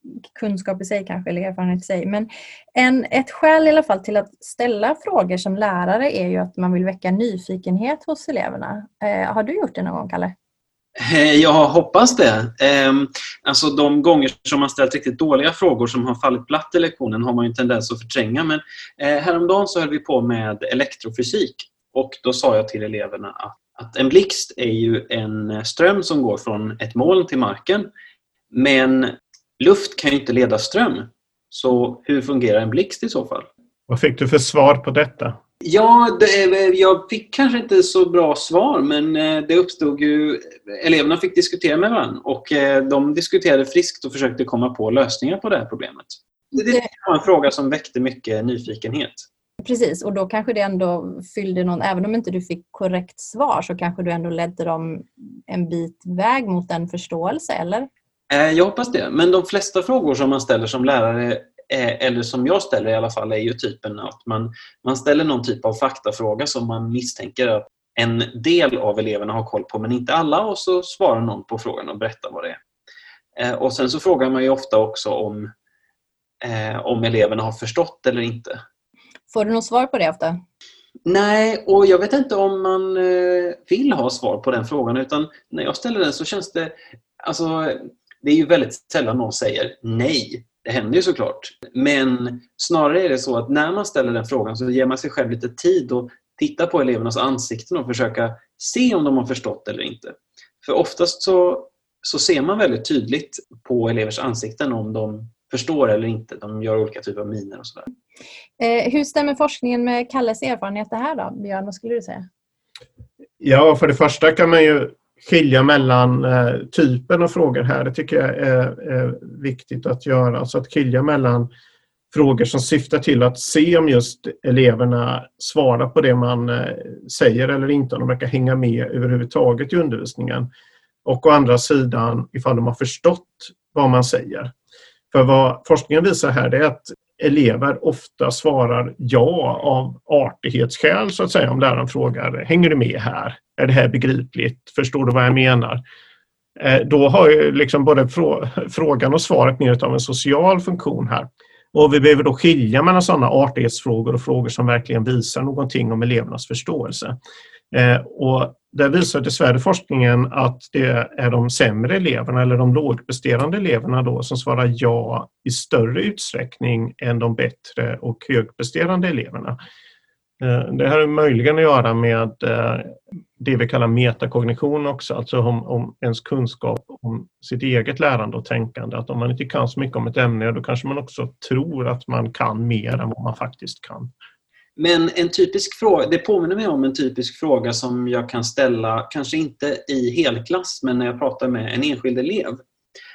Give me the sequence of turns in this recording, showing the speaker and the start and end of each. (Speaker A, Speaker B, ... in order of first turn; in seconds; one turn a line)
Speaker A: 0.3-10.3
Speaker B: 11.0-27.9
Speaker B: 28.5-33.5
Speaker C: 33.9-35.4
Speaker B: 35.6-49.2
Speaker A: 49.6-57.9
Speaker B: 58.3-72.6
Speaker B: 73.4-75.5
Speaker B: 76.4-78.6
Speaker A: 79.3-80.4
Speaker B: 81.0-107.8
Speaker A: 108.6-112.3
Speaker C: 113.4-121.5
Speaker C: 122.1-130.5
Speaker C: 131.0-134.5
Speaker C: 135.1-145.8
Speaker C: 146.6-157.2
Speaker C: 157.7-169.6
Speaker C: 170.4-184.1
Speaker B: 184.8-192.6